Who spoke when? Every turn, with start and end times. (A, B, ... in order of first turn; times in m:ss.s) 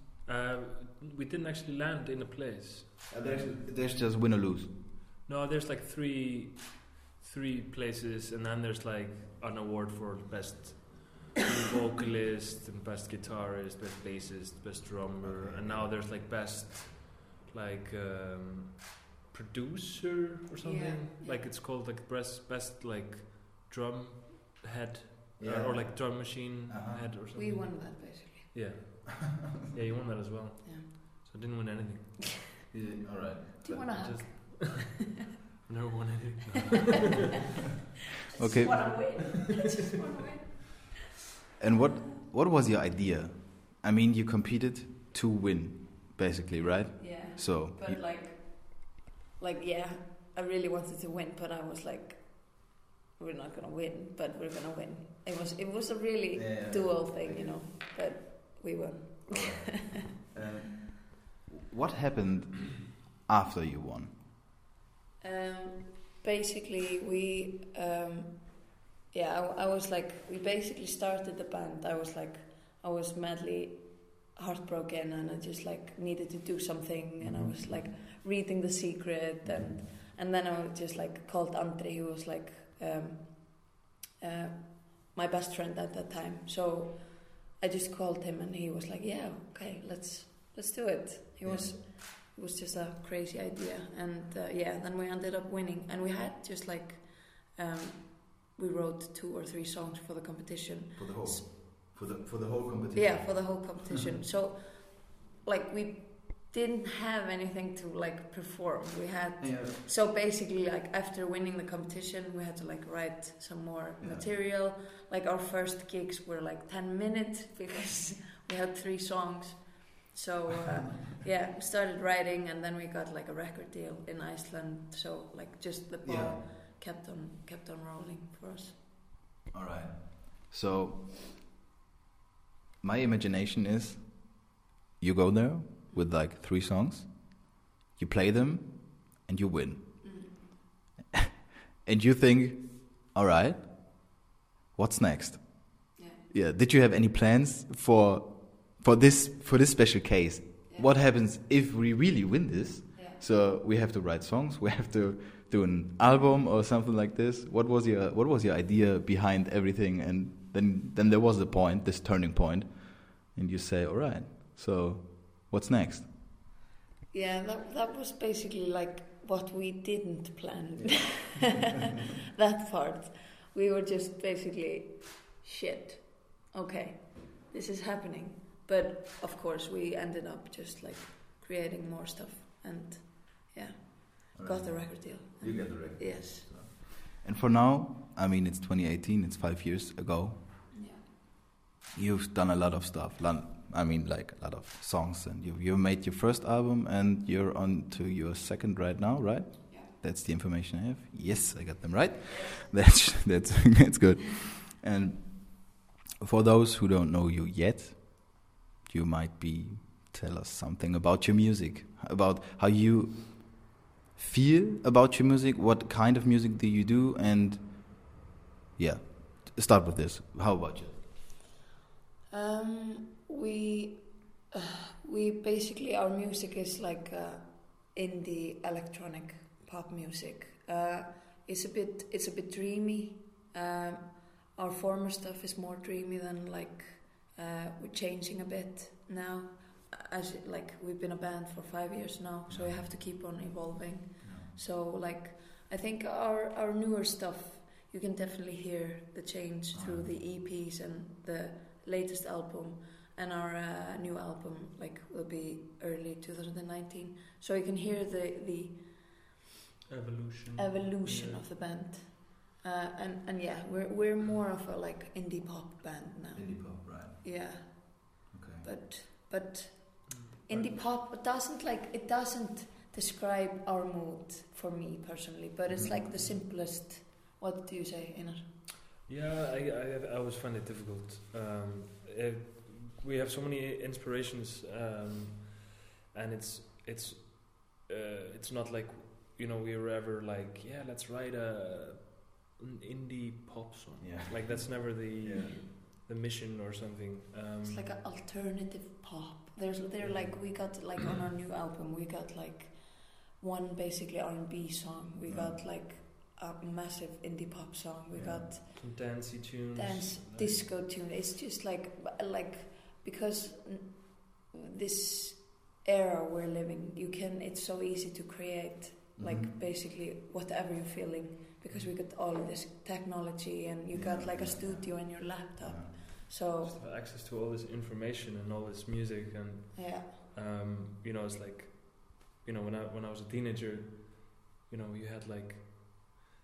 0:00.3-0:03.6 A
0:03.1-0:04.7 B
0:05.2-0:32.4 A
0:15.2-0:16.0 B
0:20.6-0:21.5 C
0:25.4-0:27.1 B
0:27.4-0:28.5 C
0:32.7-0:34.0 B
0:33.6-0:34.9 C
0:34.0-0:37.1 A
0:38.3-0:40.9 C
0:38.4-0:39.3 B
0:41.6-0:48.0 B
0:47.0-1:00.0 C
0:56.3-0:57.6 B
0:59.3-1:04.1 B
1:05.2-1:41.5 C
1:17.2-1:17.9 B
1:19.4-1:19.8 B
1:31.4-1:31.7 B
1:41.0-1:43.8 B
1:42.9-2:08.8 C
1:49.4-1:49.8 B
1:54.0-1:54.3 B
2:06.0-2:06.4 B
2:09.5-2:11.1 B
2:12.8-2:14.4 B
2:15.0-2:20.0 B
2:20.0-2:20.4 C
2:21.8-2:24.1 B
2:24.8-2:46.1 B
2:26.0-2:26.2 C
2:47.1-3:06.5 C
2:50.8-2:51.4 B
3:04.3-3:10.4 B
3:10.7-3:11.0 C
3:11.9-3:38.1 B
3:22.3-3:22.6 C
3:38.8-3:41.0 B
3:42.3-4:19.2 C
4:02.5-4:02.9 B
4:04.2-4:04.5 B
4:09.7-4:10.1 B
4:19.9-4:21.5 A
4:20.6-4:38.5 C
4:26.3-4:27.2 B
4:28.3-4:28.7 B
4:30.1-4:30.8 A
4:35.7-4:36.0 B
4:39.1-4:57.9 A
4:54.0-4:55.6 B
4:57.7-5:09.2 C
5:05.3-5:05.6 B
5:08.1-5:08.5 B
5:08.8-5:10.6 A
5:09.8-5:26.8 C
5:19.2-5:19.5 B
5:23.9-5:26.0 B
5:26.6-5:36.2 A
5:29.8-5:30.1 C